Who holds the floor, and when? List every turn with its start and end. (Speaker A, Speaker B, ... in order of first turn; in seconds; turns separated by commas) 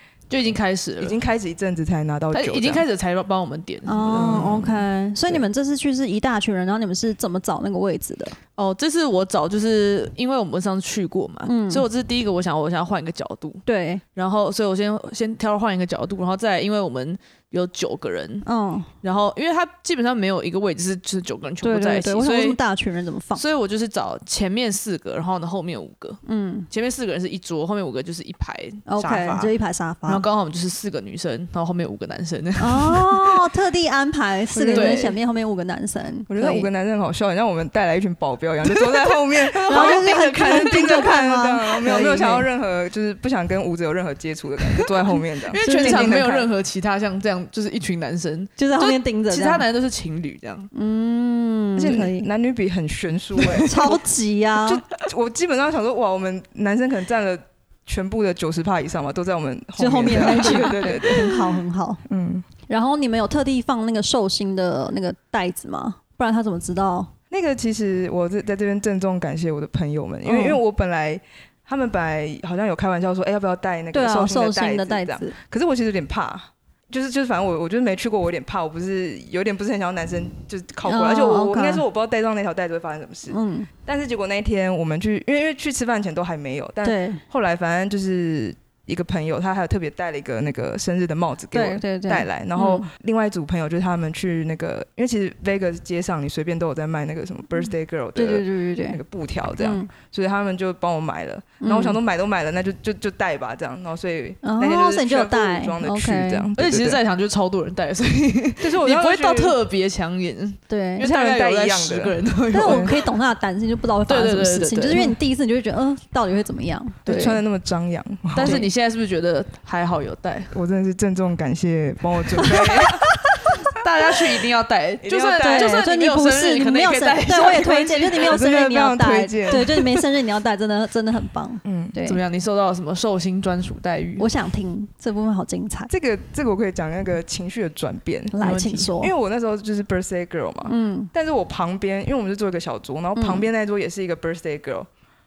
Speaker A: 0.3-1.2, Speaker B: 1.0-2.9, Speaker A: 2.3-4.8, Speaker C: 3.9-8.4, Speaker B: 4.1-4.7, Speaker A: 8.6-18.5, Speaker C: 11.5-11.9, Speaker C: 13.7-14.0, Speaker C: 18.4-18.9, Speaker A: 19.0-22.6, Speaker C: 21.6-23.4, Speaker A: 23.4-29.5, Speaker C: 26.3-26.7, Speaker C: 28.9-30.3, Speaker A: 30.1-33.5, Speaker C: 32.6-36.7, Speaker B: 34.5-35.1, Speaker A: 34.7-35.2, Speaker B: 36.3-46.5, Speaker A: 38.7-41.0, Speaker C: 39.7-42.5, Speaker A: 45.5-50.7, Speaker C: 45.6-46.3, Speaker C: 48.6-49.7, Speaker C: 50.7-52.3, Speaker B: 51.8-54.0, Speaker C: 53.6-54.8, Speaker B: 54.6-61.3, Speaker C: 59.8-62.0, Speaker A: 60.2-61.4, Speaker B: 62.1-62.5, Speaker C: 62.7-67.1, Speaker B: 67.3-107.0, Speaker C: 70.2-70.6, Speaker C: 73.9-75.3, Speaker C: 80.9-81.8, Speaker C: 83.3-83.7, Speaker C: 86.8-87.2, Speaker C: 91.5-92.9, Speaker C: 98.2-99.0, Speaker C: 99.6-99.9, Speaker C: 101.6-102.0, Speaker C: 104.4-106.5, Speaker A: 106.6-113.1, Speaker B: 108.6-109.6, Speaker C: 110.7-111.1, Speaker B: 111.0-112.9, Speaker C: 112.5-117.4, Speaker A: 114.1-115.2, Speaker A: 117.1-117.4, Speaker B: 117.1-118.7, Speaker A: 118.3-120.5, Speaker C: 118.4-118.7, Speaker B: 120.5-123.1, Speaker C: 122.4-123.6, Speaker A: 123.6-128.4, Speaker B: 125.0-125.8, Speaker C: 125.4-132.2, Speaker B: 128.2-129.9, Speaker B: 131.7-132.0, Speaker A: 132.0-134.3, Speaker C: 134.2-135.9, Speaker B: 135.9-138.4, Speaker C: 138.3-139.1, Speaker A: 138.4-138.9, Speaker B: 139.0-144.9, Speaker C: 140.7-141.1, Speaker C: 143.2-143.5